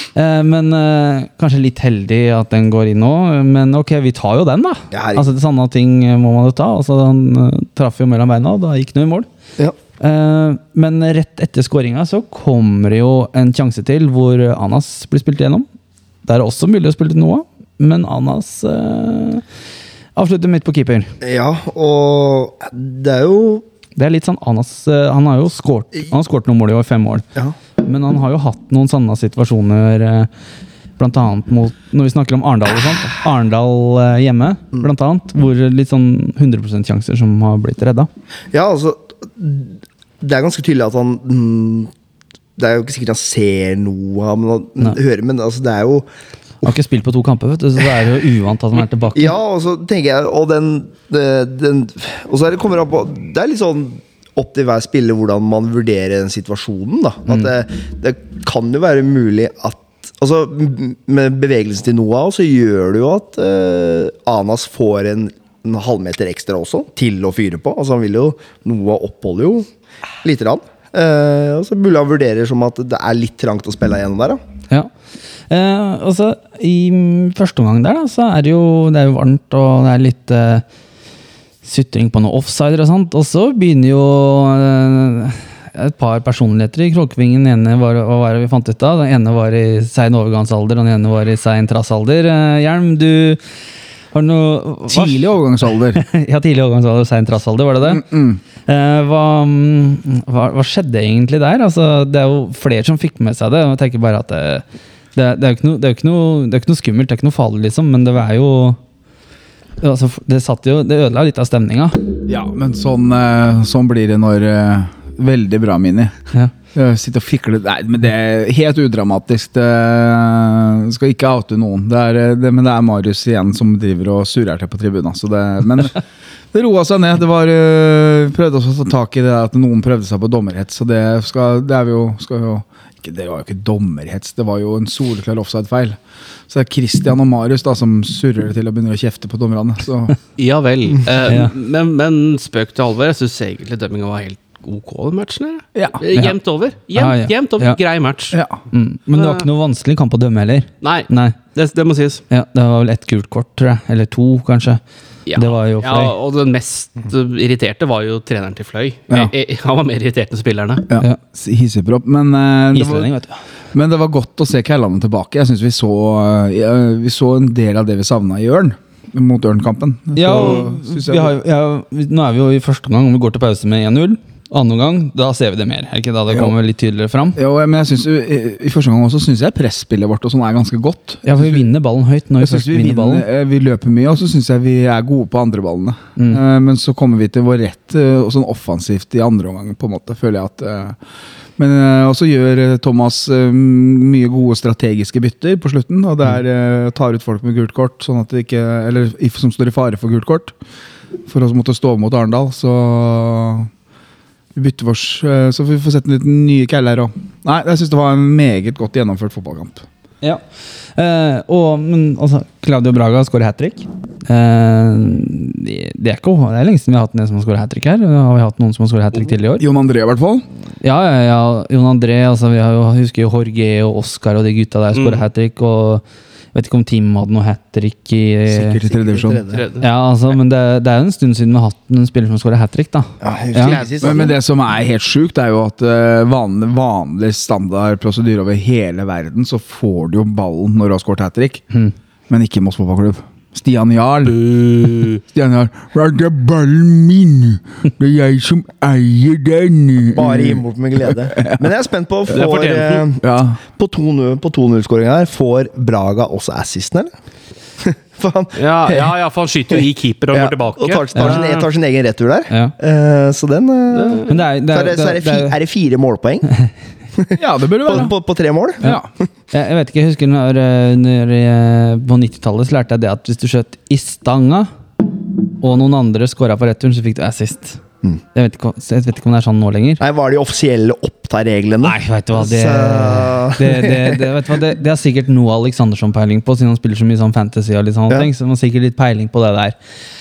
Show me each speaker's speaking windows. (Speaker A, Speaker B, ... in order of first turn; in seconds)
Speaker A: 0.1-9.3, 10.0-15.7, 16.2-19.4, 20.1-21.1, 23.9-27.2, 27.8-30.3, 31.0-38.1, 46.6-49.3, 75.5-80.6, 81.6-93.4, 94.1-98.0, 98.7-104.6, 105.2-108.8, 109.8-112.0, 141.2-141.5, 146.9-147.8, 148.7-151.4, 152.3-154.8, 155.3-156.1, 162.7-163.4, 170.2-177.4, 181.2-183.2, 210.9-219.6, 220.8-228.8, 229.8-233.8, 261.1-261.4, 264.3-265.6, 268.8-274.7, 275.6-277.8, 278.3-280.0, 281.8-289.7
Speaker B: 4.9-5.3, 21.2-23.6, 38.5-41.9, 42.6-46.1, 49.1-69.7, 70.2-74.4, 228.8-229.6, 233.2-234.3, 250.1-257.1, 257.8-259.1, 259.7-266.5, 267.2-268.8, 280.0-284.2
Speaker C: 94.9-96.0, 97.8-98.4, 112.3-116.2, 116.7-126.0, 126.5-140.2, 145.7-146.0, 148.3-148.6, 160.9-163.1, 163.7-171.3, 177.3-181.6, 182.4-191.0, 191.6-200.5, 201.3-203.7, 204.5-209.8, 219.6-220.4, 228.5-229.4, 234.0-241.6, 242.3-251.7, 253.2-253.6, 267.4-268.1, 268.8-269.1
Speaker D: 140.4-148.4, 149.1-149.4, 150.8-152.2, 155.3-160.8, 224.9-225.2, 229.5-229.8, 233.6-234.3, 244.2-245.2, 252.3-253.1, 258.6-261.7, 263.9-264.3